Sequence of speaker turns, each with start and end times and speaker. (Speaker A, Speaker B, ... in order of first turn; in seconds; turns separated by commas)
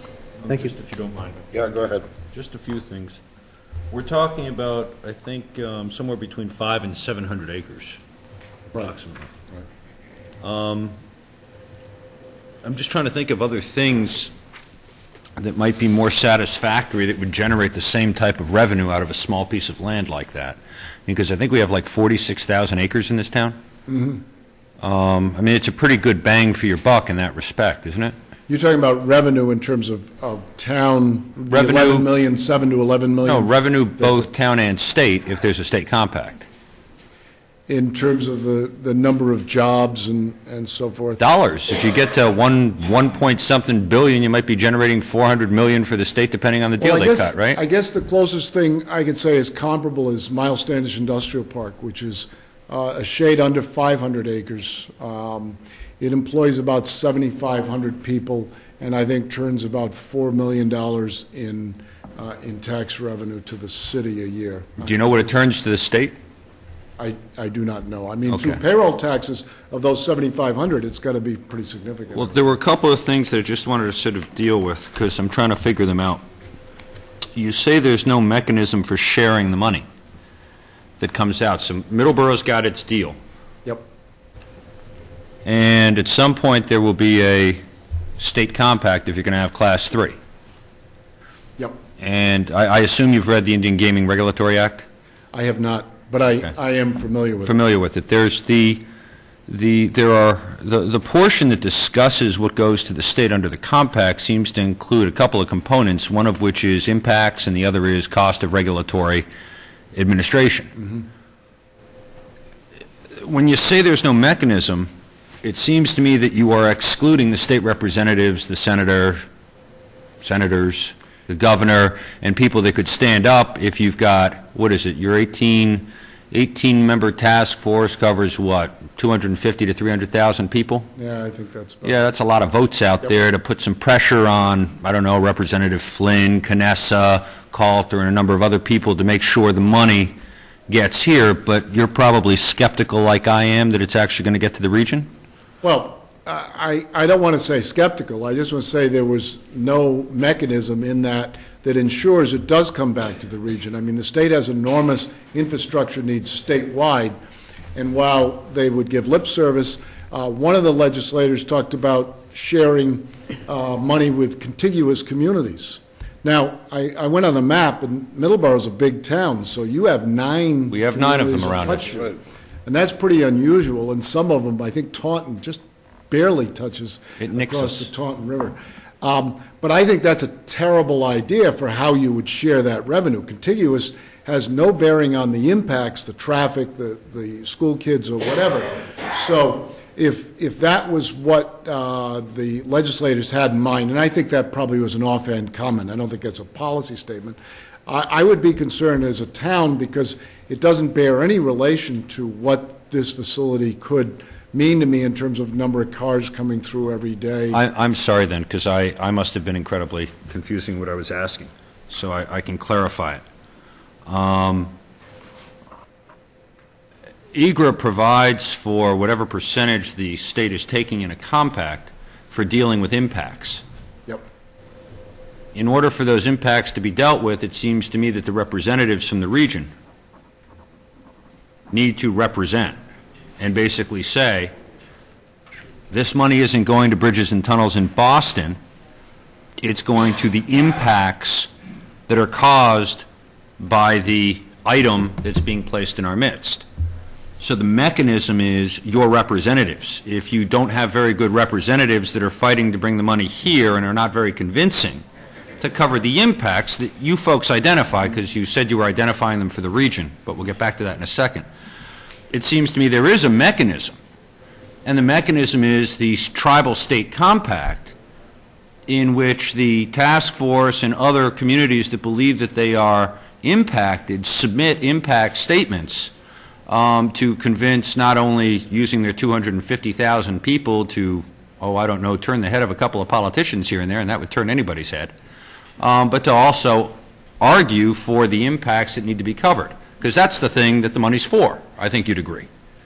Speaker A: 0.4-3.2, Speaker A: 3.9-8.0, Speaker A: 8.7-9.3, Speaker A: 10.4-10.9, Speaker A: 12.6-14.3, Speaker A: 15.4-23.6, Speaker B: 23.9-24.2, Speaker A: 24.8-28.1, Speaker B: 28.5-34.3, Speaker A: 31.5-32.1, Speaker A: 33.2-36.5, Speaker B: 37.7-41.2, Speaker A: 41.2-47.6, Speaker B: 46.8-65.3, Speaker A: 64.8-66.1, Speaker B: 67.0-72.5, Speaker A: 68.3-68.6, Speaker A: 72.1-76.2, Speaker A: 77.3-79.8, Speaker A: 81.0-83.2, Speaker A: 85.4-87.6, Speaker A: 88.2-90.2, Speaker A: 92.0-94.9, Speaker B: 95.3-97.6, Speaker A: 97.4-98.8, Speaker A: 99.5-109.2, Speaker A: 109.9-110.8, Speaker A: 113.1-114.9, Speaker A: 115.4-119.2, Speaker A: 120.2-130.9, Speaker B: 131.0-132.0, Speaker A: 131.8-140.1, Speaker A: 140.7-145.1, Speaker B: 145.6-157.1, Speaker B: 157.7-207.6, Speaker A: 170.7-172.0, Speaker A: 177.2-177.9, Speaker A: 207.5-213.2, Speaker A: 214.1-214.7, Speaker A: 217.3-223.6, Speaker A: 225.5-229.7, Speaker A: 231.7-232.8, Speaker A: 233.4-234.5, Speaker A: 235.9-238.6, Speaker A: 239.6-241.5, Speaker A: 242.1-243.1, Speaker A: 243.6-246.6, Speaker A: 247.4-255.0, Speaker A: 255.6-261.4, Speaker A: 262.3-264.0, Speaker A: 264.8-267.9, Speaker A: 268.9-276.1, Speaker A: 276.7-285.1, Speaker A: 285.8-292.5